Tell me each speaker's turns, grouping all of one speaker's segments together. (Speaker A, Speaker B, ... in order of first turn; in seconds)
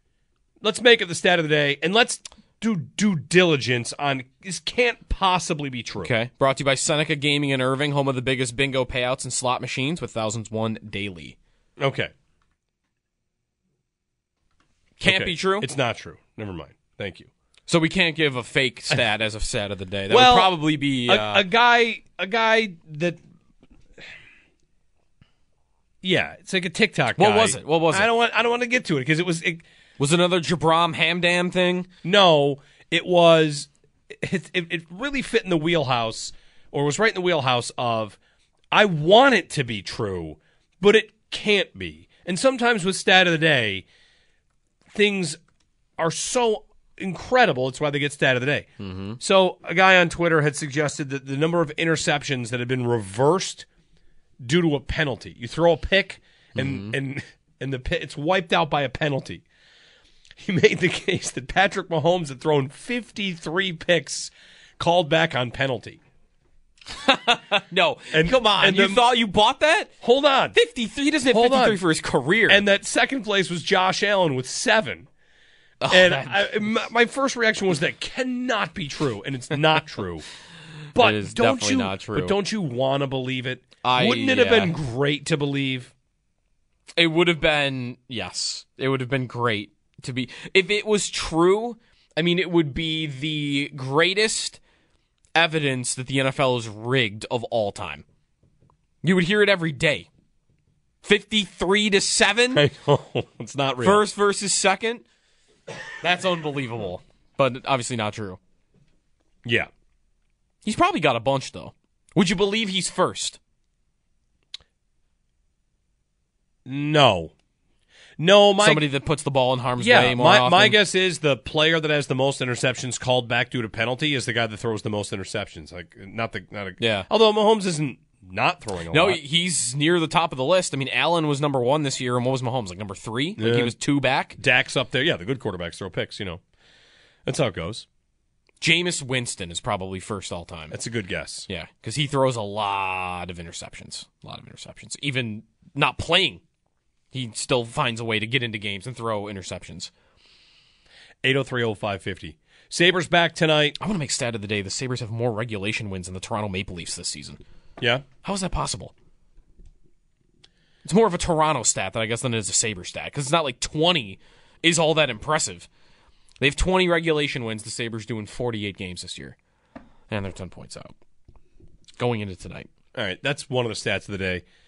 Speaker A: 0.6-6.1, 11.8-12.1, 15.0-17.3, 20.1-23.2, 26.0-29.6, 32.0-38.2, 38.7-43.9, 44.9-45.4, 46.0-53.6, 54.4-59.4, 60.4-66.0, 68.1-69.0, 70.0-70.5, 71.3-71.8, 72.5-75.1, 75.9-80.2, 80.9-85.9, 102.5-104.0, 116.7-117.3, 118.2-118.8, 119.8-129.2, 133.4-133.7, 134.4-136.4, 137.2-137.8, 140.7-141.5, 151.2-153.8, 157.8-158.0, 172.9-174.4
Speaker B: 6.0-11.3, 15.0-15.7, 17.7-21.4, 27.2-28.1, 30.0-31.9, 48.8-49.2, 56.5-56.9, 66.9-69.9, 70.5-72.6, 75.8-76.7, 81.0-82.4, 83.8-84.8, 87.0-94.6, 95.3-98.0, 99.0-100.1, 101.0-102.6, 103.8-105.0, 106.0-108.4, 110.6-113.4, 118.6-120.8, 126.8-127.1, 128.9-134.4, 138.6-140.7, 141.5-146.4, 147.1-149.9, 153.8-157.4, 158.2-158.9, 160.8-165.7, 166.4-169.3, 170.1-170.9, 172.0-172.7